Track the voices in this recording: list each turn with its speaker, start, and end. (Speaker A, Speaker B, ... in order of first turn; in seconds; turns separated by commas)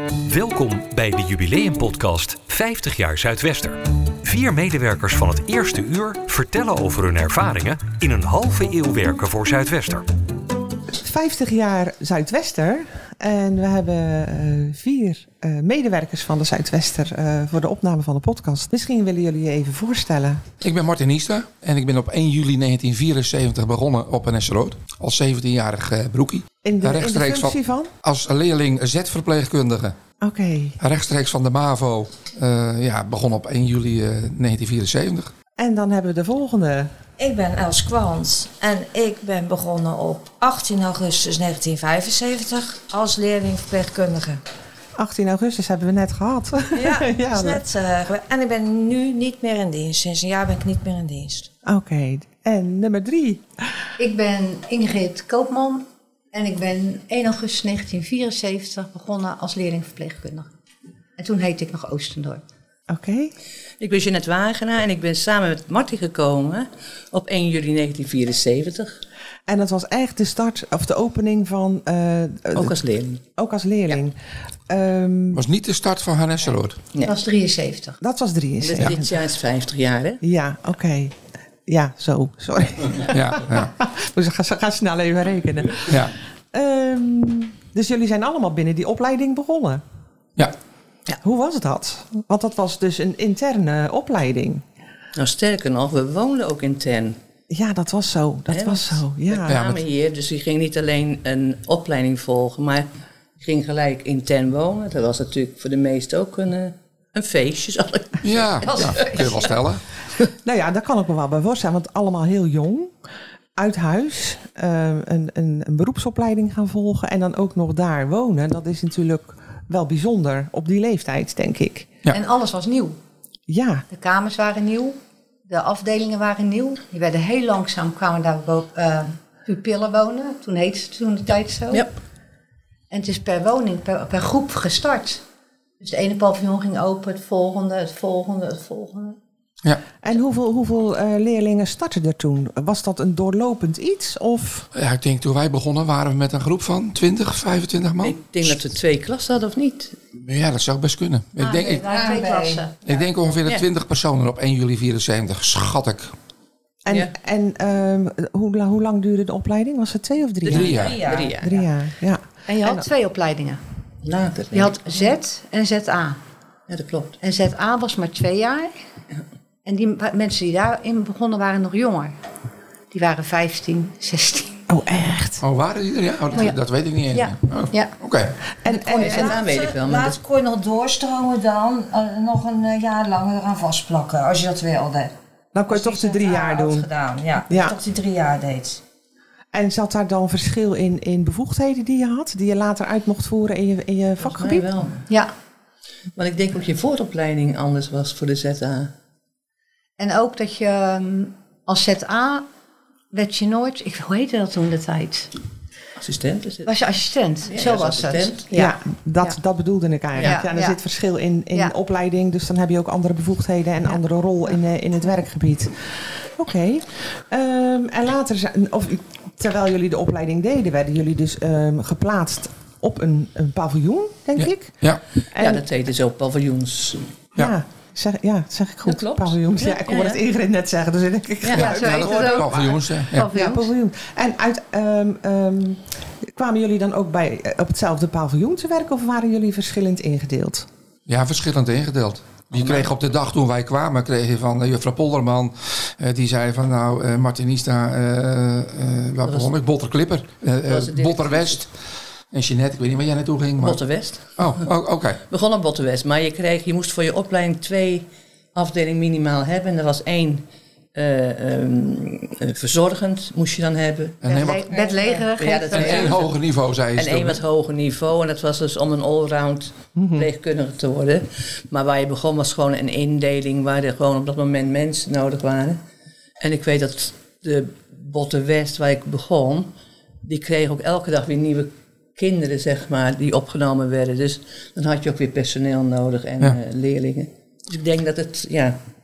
Speaker A: 0.2-10.1, Speaker B: 11.0-20.5, Speaker C: 20.6-29.9, Speaker B: 26.6-27.9, Speaker B: 30.2-30.8, Speaker C: 30.8-35.3, Speaker B: 35.6-36.9, Speaker D: 37.2-44.4, Speaker B: 45.0-47.6, Speaker D: 46.7-51.5, Speaker B: 51.6-53.5, Speaker E: 54.0-60.5, Speaker E: 61.2-62.4, Speaker B: 62.9-63.3, Speaker F: 63.8-69.0, Speaker B: 69.5-72.8, Speaker F: 72.5-73.2, Speaker B: 73.3-74.2, Speaker B: 74.7-75.5, Speaker C: 75.3-76.8, Speaker E: 77.0-78.0, Speaker B: 78.0-79.1, Speaker F: 78.6-80.2, Speaker B: 80.2-86.0, Speaker C: 83.1-83.7, Speaker C: 85.9-86.1, Speaker B: 86.5-89.8, Speaker B: 91.2-94.6, Speaker F: 95.2-97.2, Speaker B: 97.5-99.6, Speaker F: 98.5-102.9, Speaker F: 103.4-109.3, Speaker C: 108.2-109.8, Speaker E: 108.6-109.6, Speaker B: 110.4-112.9, Speaker B: 113.5-122.0, Speaker E: 122.1-123.0, Speaker B: 123.5-123.8, Speaker E: 123.9-125.0, Speaker E: 125.5-131.9, Speaker E: 132.9-135.2, Speaker E: 135.8-139.2, Speaker B: 140.0-144.7, Speaker C: 144.7-148.5, Speaker F: 148.0-149.9, Speaker C: 150.2-151.9, Speaker E: 151.4-153.0, Speaker D: 151.8-152.6, Speaker C: 152.8-156.1, Speaker B: 156.8-160.8, Speaker F: 156.9-157.1, Speaker C: 160.5-161.0, Speaker F: 160.5-161.7, Speaker D: 160.5-161.3, Speaker B: 161.3-162.9, Speaker E: 162.5-163.6, Speaker F: 164.0-164.8, Speaker E: 164.5-166.2, Speaker F: 166.7-167.2, Speaker E: 167.2-168.7, Speaker E: 169.6-172.1, Speaker E: 172.9-174.6, Speaker B: 174.7-175.4, Speaker C: 175.4-178.3, Speaker E: 177.1-177.9, Speaker B: 178.6-179.3, Speaker D: 178.7-185.1, Speaker F: 179.0-180.2, Speaker B: 185.5-186.8, Speaker D: 185.7-188.8, Speaker B: 187.5-187.7, Speaker B: 189.5-194.7, Speaker F: 194.2-195.0, Speaker F: 196.2-198.9, Speaker E: 200.0-202.4, Speaker E: 203.1-205.3, Speaker F: 206.0-206.7, Speaker E: 206.7-209.3, Speaker F: 207.5-208.5, Speaker B: 208.5-215.8, Speaker F: 210.2-210.4, Speaker E: 210.2-210.8, Speaker B: 216.3-225.6, Speaker C: 224.4-225.0, Speaker F: 225.4-227.1, Speaker B: 227.4-240.7, Speaker F: 228.8-230.2, Speaker F: 231.4-231.7, Speaker E: 231.5-233.7, Speaker C: 231.7-233.3, Speaker C: 241.1-251.7, Speaker F: 242.6-242.9, Speaker F: 249.2-249.5, Speaker F: 250.7-251.7, Speaker C: 252.3-253.8, Speaker F: 253.6-254.7, Speaker C: 254.4-255.2, Speaker F: 255.3-264.5, Speaker C: 264.2-264.7, Speaker E: 264.2-266.2, Speaker D: 264.7-265.2, Speaker F: 265.4-266.4, Speaker C: 265.7-267.4, Speaker F: 266.9-275.8, Speaker B: 269.9-270.3, Speaker F: 276.4-279.7, Speaker F: 280.2-288.8